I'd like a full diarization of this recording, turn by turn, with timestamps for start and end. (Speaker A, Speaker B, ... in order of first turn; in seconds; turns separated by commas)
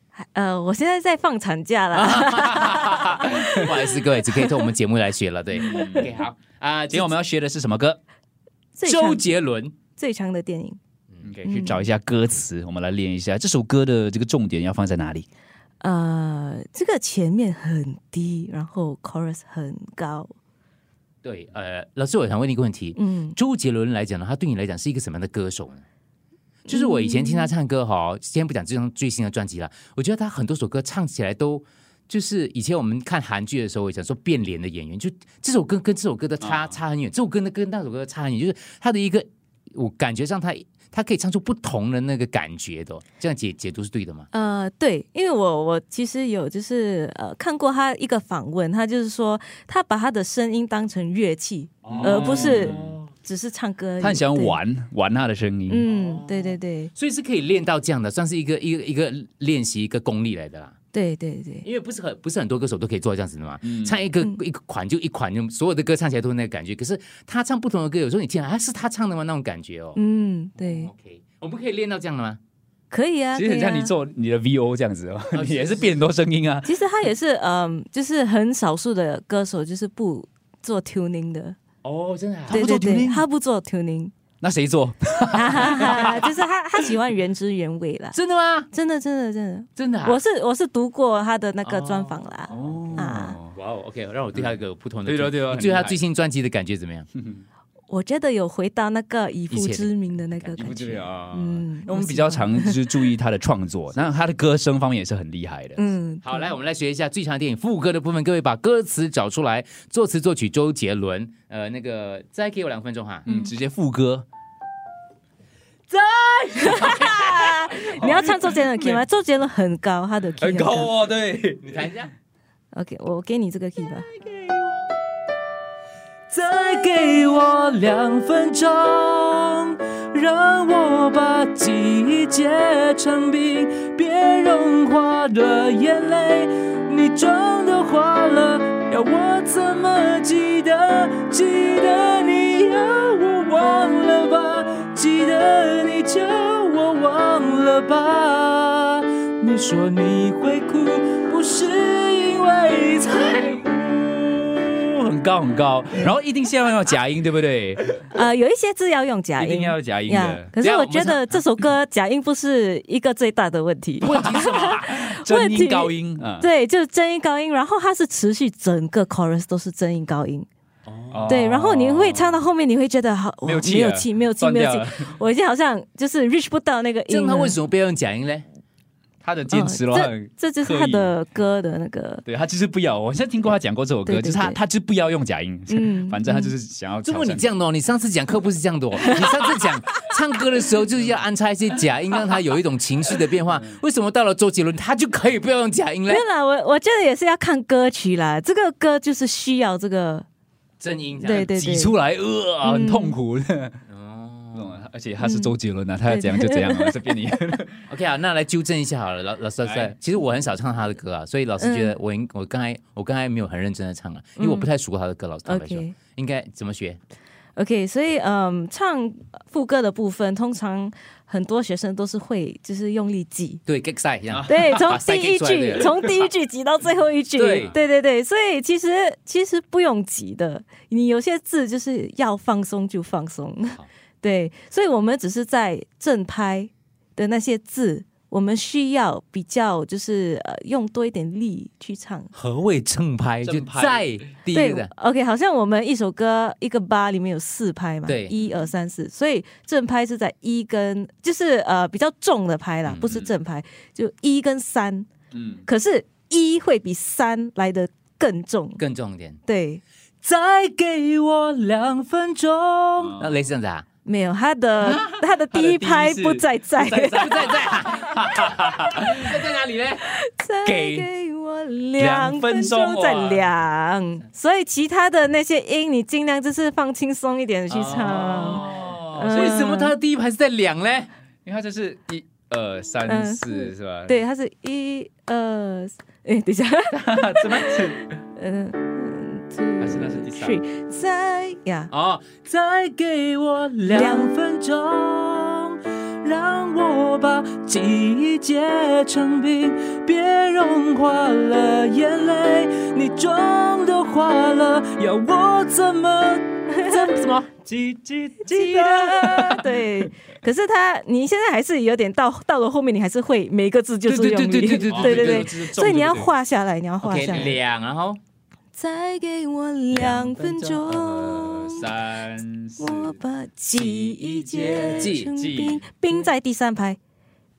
Speaker A: 0.3-3.9, Speaker B: 1.9-7.2, Speaker C: 2.5-3.9, Speaker A: 5.6-6.0, Speaker C: 5.6-6.1, Speaker C: 6.9-8.0, Speaker A: 8.8-9.2, Speaker B: 8.8-9.8, Speaker A: 10.0-10.8, Speaker C: 11.2-15.3, Speaker A: 11.4-11.9, Speaker A: 15.8-20.3, Speaker B: 21.2-25.8, Speaker A: 23.0-23.4, Speaker B: 26.7-44.3, Speaker A: 26.7-27.5, Speaker C: 36.4-36.8, Speaker A: 44.3-54.6, Speaker C: 51.9-53.0, Speaker B: 51.9-53.0, Speaker C: 54.0-55.9, Speaker A: 55.7-56.9, Speaker B: 55.9-60.8, Speaker A: 60.9-61.6, Speaker B: 61.6-70.0, Speaker C: 63.6-64.0, Speaker A: 70.0-70.9, Speaker B: 70.6-72.4, Speaker A: 72.9-73.9, Speaker C: 73.3-76.7, Speaker B: 75.3-76.0, Speaker A: 76.6-81.6, Speaker B: 81.8-82.7, Speaker C: 82.5-83.2, Speaker A: 82.5-84.1, Speaker C: 84.4-86.4, Speaker A: 85.3-88.1, Speaker B: 85.8-86.0, Speaker B: 88.1-88.7, Speaker A: 88.7-93.4, Speaker B: 89.8-90.2, Speaker B: 91.6-92.3, Speaker C: 92.5-93.6, Speaker B: 93.5-97.1, Speaker C: 95.1-96.0, Speaker C: 97.2-97.4, Speaker A: 97.9-102.8, Speaker B: 99.5-99.9, Speaker C: 100.5-105.9, Speaker A: 105.8-106.5, Speaker B: 106.2-113.3, Speaker C: 113.3-114.3, Speaker B: 115.9-117.5, Speaker A: 116.5-120.9, Speaker C: 116.6-119.0, Speaker C: 120.4-121.9, Speaker B: 121.6-122.1, Speaker A: 122.7-124.1, Speaker C: 124.2-124.8, Speaker B: 126.3-153.6, Speaker A: 126.5-127.5, Speaker C: 153.3-157.9, Speaker A: 158.1-170.5, Speaker C: 159.4-160.5, Speaker B: 160.6-161.4, Speaker C: 164.0-166.5, Speaker B: 164.2-164.4, Speaker B: 170.9-171.4, Speaker C: 171.1-172.4, Speaker A: 171.3-177.6, Speaker C: 173.4-175.2, Speaker B: 177.1-178.5, Speaker C: 179.2-181.1, Speaker A: 179.5-182.2, Speaker C: 182.3-187.5, Speaker A: 184.1-184.6, Speaker A: 185.7-186.5, Speaker B: 187.0-196.2, Speaker A: 189.0-189.3, Speaker A: 196.1-200.3, Speaker B: 200.8-201.5, Speaker A: 201.2-202.0, Speaker C: 201.2-203.8, Speaker A: 202.6-203.2, Speaker B: 203.9-204.8, Speaker C: 204.5-207.9, Speaker A: 205.2-207.2, Speaker B: 207.9-217.0, Speaker C: 209.7-209.9, Speaker A: 211.6-212.0, Speaker A: 214.4-214.7, Speaker A: 215.5-216.0, Speaker A: 217.6-223.6, Speaker B: 223.7-226.3, Speaker C: 224.3-224.9, Speaker A: 224.5-242.3, Speaker B: 227.4-227.8, Speaker B: 242.3-244.9, Speaker C: 243.4-244.2, Speaker A: 244.5-255.1, Speaker B: 248.1-248.4, Speaker B: 252.9-253.3, Speaker C: 255.3-255.6, Speaker A: 255.7-258.8, Speaker B: 258.8-259.4, Speaker A: 259.5-259.8, Speaker B: 260.2-263.9, Speaker C: 263.0-263.4, Speaker A: 264.0-267.4, Speaker B: 264.8-265.2, Speaker C: 265.5-269.3, Speaker B: 266.8-270.1, Speaker A: 270.0-279.9, Speaker C: 270.6-271.1, Speaker C: 272.0-273.5, Speaker C: 277.7-279.7, Speaker B: 277.8-281.1, Speaker C: 281.4-284.2, Speaker A: 283.1-291.9, Speaker C: 286.9-288.1, Speaker C: 289.8-290.6, Speaker B: 291.9-307.6, Speaker C: 293.8-294.2, Speaker A: 293.9-294.4, Speaker A: 306.7-307.1, Speaker C: 307.6-310.1, Speaker A: 308.4-317.6, Speaker B: 314.1-315.5, Speaker C: 314.6-316.3, Speaker B: 317.0-318.2, Speaker A: 318.8-321.9, Speaker C: 319.9-323.2, Speaker A: 322.8-327.0, Speaker C: 323.7-326.3, Speaker B: 324.8-325.3